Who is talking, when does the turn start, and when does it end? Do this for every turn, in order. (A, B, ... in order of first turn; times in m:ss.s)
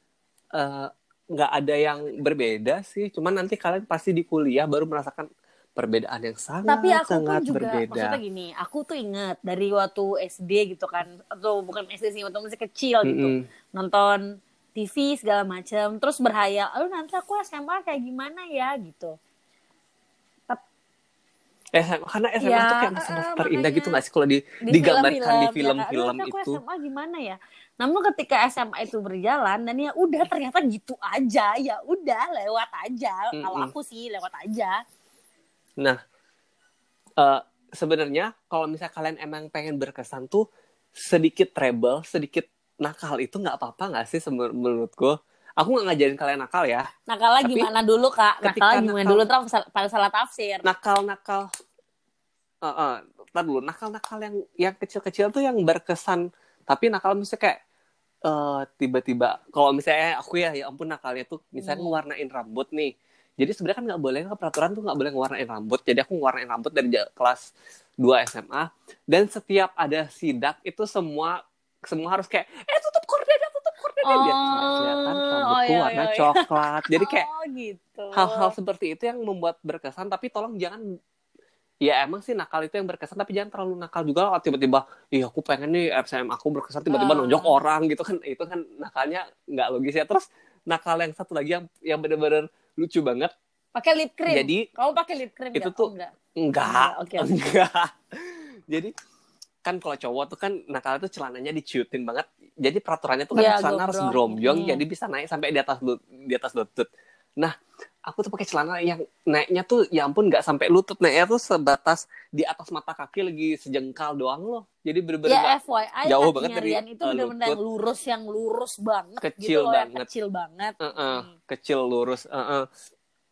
0:00.6-0:08.2 A
0:06.7-0:14.2 B
0:13.0-0:13.4 A
0:14.8-0:19.1 B
0:21.7-0:26.6 A
0:22.4-0:24.0 B
0:24.6-0:34.8 B
0:33.3-0:33.7 A
0:37.2-0:40.4 A
0:41.0-0:46.9 A
0:47.1-0:50.7 B
0:47.4-0:47.7 A
0:48.4-0:49.2 A
0:50.6-0:51.5 A
0:52.6-0:57.6 A
0:58.2-1:07.5 A
1:01.6-1:02.0 B
1:08.0-1:17.3 A
1:14.0-1:18.5 B
1:18.1-1:20.8 A
1:21.8-1:33.3 A
1:26.9-1:27.5 B
1:33.7-1:37.3 B
1:34.3-1:34.7 A
1:35.6-1:35.9 A
1:36.4-1:38.9 A
1:39.6-1:57.6 A
1:43.3-1:44.8 B
1:55.3-2:01.3 B
1:59.2-2:00.0 A
2:00.8-2:02.6 A